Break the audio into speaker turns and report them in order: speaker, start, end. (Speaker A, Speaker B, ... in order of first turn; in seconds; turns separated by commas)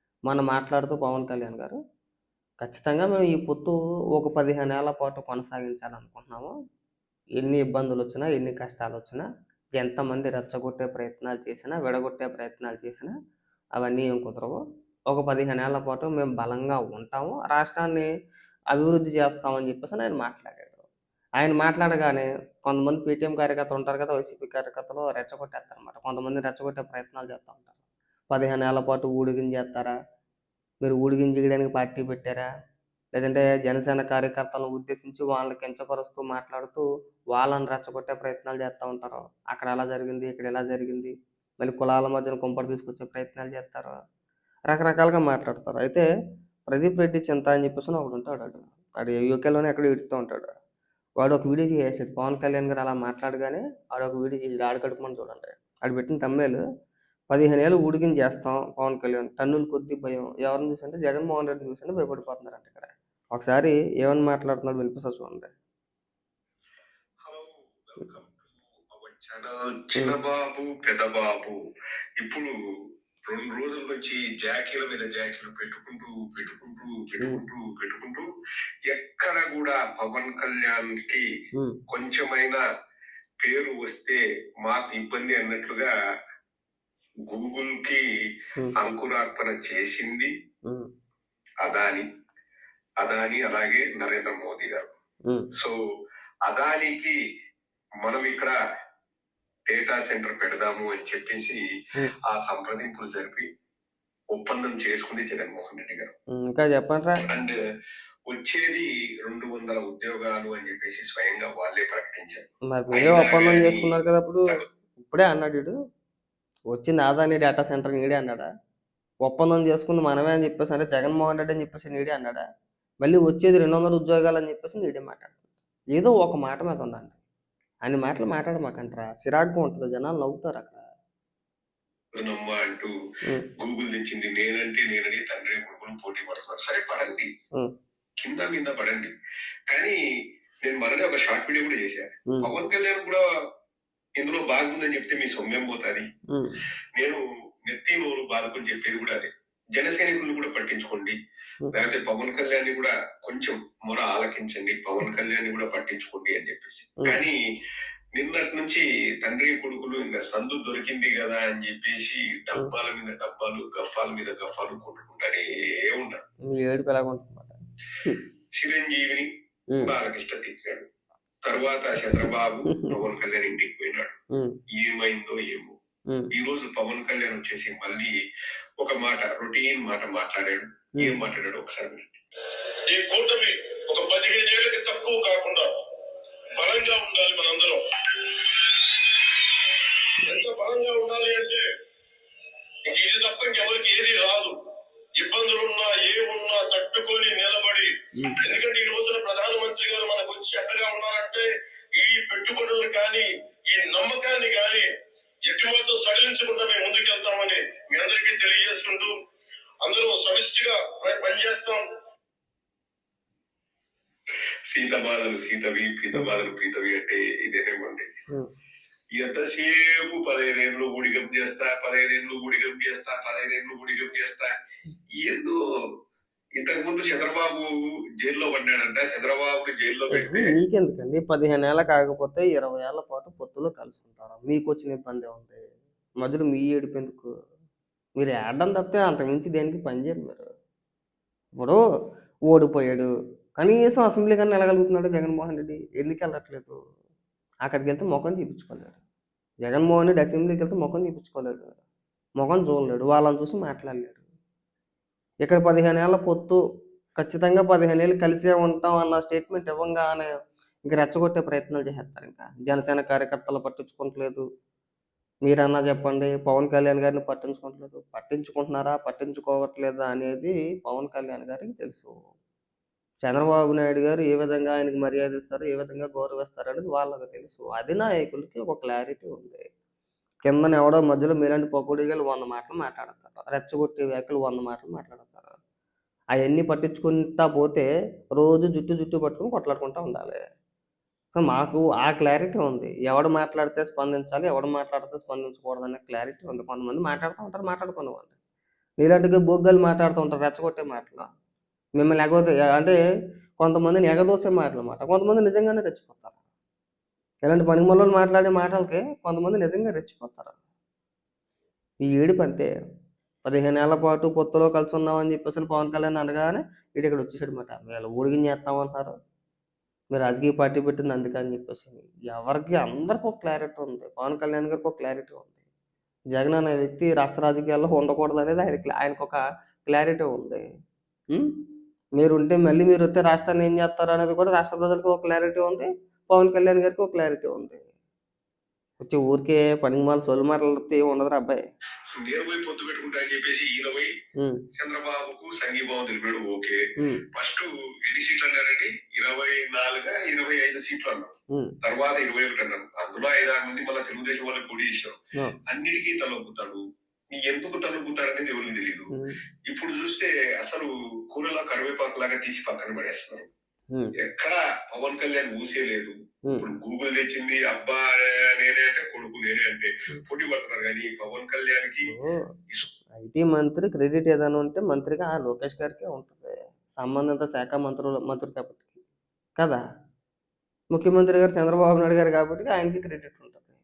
Speaker A: 0.3-1.8, Speaker A: 2.6-6.5, Speaker A: 7.4-9.3, Speaker A: 9.8-13.1, Speaker A: 13.8-18.1, Speaker A: 18.7-20.9, Speaker A: 21.4-27.7, Speaker A: 28.3-29.9, Speaker A: 30.8-32.5, Speaker A: 33.1-44.0, Speaker A: 44.7-46.0, Speaker A: 46.7-50.5, Speaker A: 51.2-56.6, Speaker A: 57.3-65.5, Speaker B: 67.2-71.6, Speaker B: 72.2-72.5, Speaker B: 73.3-78.3, Speaker B: 78.9-81.2, Speaker B: 81.9-82.6, Speaker B: 83.4-85.9, Speaker B: 87.3-88.0, Speaker B: 88.8-90.3, Speaker B: 91.6-92.0, Speaker B: 93.0-94.9, Speaker B: 96.5-97.2, Speaker B: 98.0-98.5, Speaker B: 99.7-101.6, Speaker B: 102.2-103.5, Speaker B: 104.3-106.1, Speaker A: 106.3-107.2, Speaker B: 107.3-107.6, Speaker B: 108.3-113.9, Speaker A: 112.7-114.5, Speaker A: 115.0-115.7, Speaker A: 116.7-118.5, Speaker A: 119.2-122.4, Speaker A: 123.0-125.4, Speaker A: 125.9-127.2, Speaker A: 127.8-130.8, Speaker B: 132.2-132.9, Speaker B: 133.6-137.3, Speaker B: 138.2-139.1, Speaker B: 139.7-140.0, Speaker B: 140.6-143.2, Speaker B: 144.2-146.0, Speaker A: 146.3-146.6, Speaker B: 146.9-151.2, Speaker B: 151.7-157.4, Speaker B: 158.2-166.2, Speaker A: 166.5-168.2, Speaker B: 168.6-169.3, Speaker B: 169.8-170.9, Speaker B: 171.4-174.2, Speaker B: 174.7-175.7, Speaker B: 176.3-178.1, Speaker B: 178.8-182.0, Speaker A: 181.0-181.2, Speaker C: 182.9-185.7, Speaker C: 186.6-191.6, Speaker C: 192.8-194.6, Speaker C: 195.2-204.9, Speaker A: 198.1-198.4, Speaker C: 205.4-209.1, Speaker C: 209.8-211.8, Speaker B: 214.7-218.1, Speaker B: 219.1-224.5, Speaker B: 225.2-225.6, Speaker B: 226.6-227.7, Speaker B: 228.2-230.5, Speaker A: 230.1-235.6, Speaker A: 236.2-237.3, Speaker A: 238.2-240.5, Speaker A: 242.5-246.8, Speaker A: 247.7-249.0, Speaker A: 249.6-251.8, Speaker A: 252.4-254.2, Speaker A: 255.4-256.6, Speaker A: 257.2-260.3, Speaker A: 260.9-264.4, Speaker A: 265.4-272.1, Speaker A: 273.2-279.6, Speaker A: 280.4-285.6, Speaker A: 286.4-287.9, Speaker A: 288.4-290.4, Speaker A: 291.3-298.3, Speaker A: 299.0-301.3, Speaker A: 302.0-303.0, Speaker A: 303.6-306.3, Speaker A: 307.4-310.6, Speaker A: 312.0-312.7, Speaker A: 313.4-319.1, Speaker A: 320.1-325.5, Speaker A: 326.3-330.6, Speaker A: 332.2-337.9, Speaker A: 339.0-341.6, Speaker B: 342.1-344.1, Speaker A: 344.4-344.6, Speaker B: 344.7-346.8, Speaker A: 347.0-347.2, Speaker B: 347.3-356.8, Speaker B: 357.4-359.1, Speaker B: 359.7-363.5, Speaker B: 364.2-372.1, Speaker A: 372.1-372.4, Speaker A: 373.1-379.0, Speaker A: 380.9-383.7